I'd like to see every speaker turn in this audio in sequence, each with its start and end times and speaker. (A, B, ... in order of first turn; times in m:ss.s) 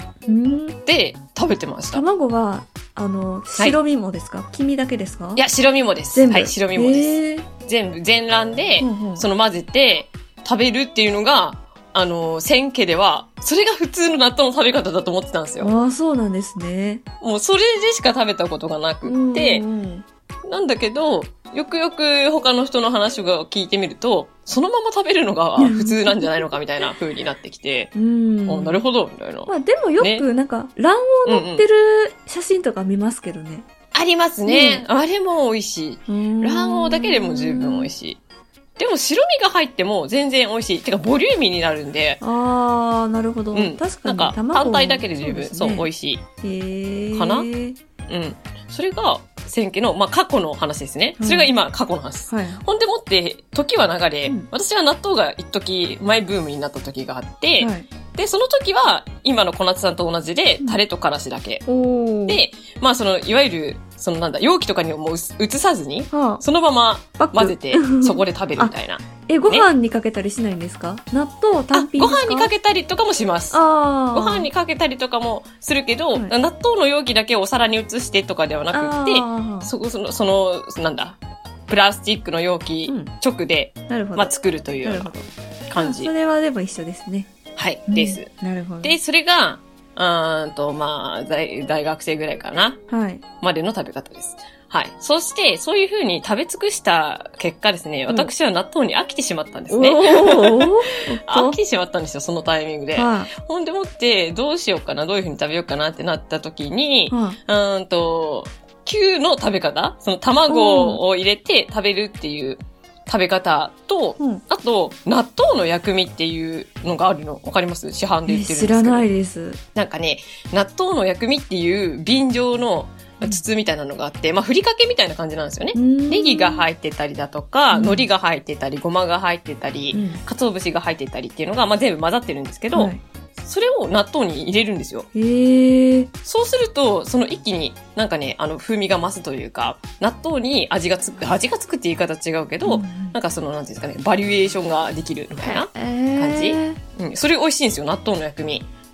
0:00.3-0:00.8 A
0:00.8-0:02.0 B
0:01.9-0:05.4 A
0:05.4-0:15.7 B
0:06.1-0:07.5 A
0:08.8-0:09.2 A
0:15.6-0:17.0 A
0:17.2-0:19.6 B
0:19.0-0:20.0 A
0:20.4-0:27.9 B
0:25.6-0:26.5 A
0:27.9-0:28.8 A
0:28.5-0:30.2 B
0:29.5-0:33.7 A
0:31.2-0:31.6 B
0:33.9-0:38.2 B
0:34.4-0:34.8 A
0:36.1-0:37.9 A
0:38.8-0:42.2 B
0:42.2-0:45.9 A
0:43.5-0:46.2 B
0:46.4-0:47.8 A
0:47.1-0:47.5 B
0:48.1-1:01.6 B
0:51.2-0:51.5 A
0:52.3-0:52.6 A
0:57.6-0:57.9 A
1:01.6-1:02.4 A
1:02.3-1:09.7 B
1:06.1-1:06.4 A
1:07.2-1:08.7 A
1:09.3-1:12.5 A
1:11.7-1:13.6 B
1:13.5-1:14.5 A
1:14.1-1:25.1 B
1:18.7-1:19.7 A
1:23.9-1:24.3 A
1:24.8-1:27.3 A
1:25.7-1:26.1 B
1:27.6-1:28.3 B
1:27.9-1:29.0 A
1:28.8-1:32.8 B
1:32.9-1:33.2 A
1:33.4-1:59.1 B
1:39.7-1:41.6 A
1:42.9-1:43.3 A
1:47.1-1:47.4 A
1:50.5-1:51.0 A
1:58.3-1:59.6 A
1:59.7-2:15.1 B
2:05.7-2:06.6 A
2:07.7-2:08.0 A
2:09.9-2:10.2 A
2:12.7-2:13.0 A
2:15.1-2:16.1 A
2:16.2-2:28.7 B
2:22.6-2:23.1 A
2:25.4-2:26.8 A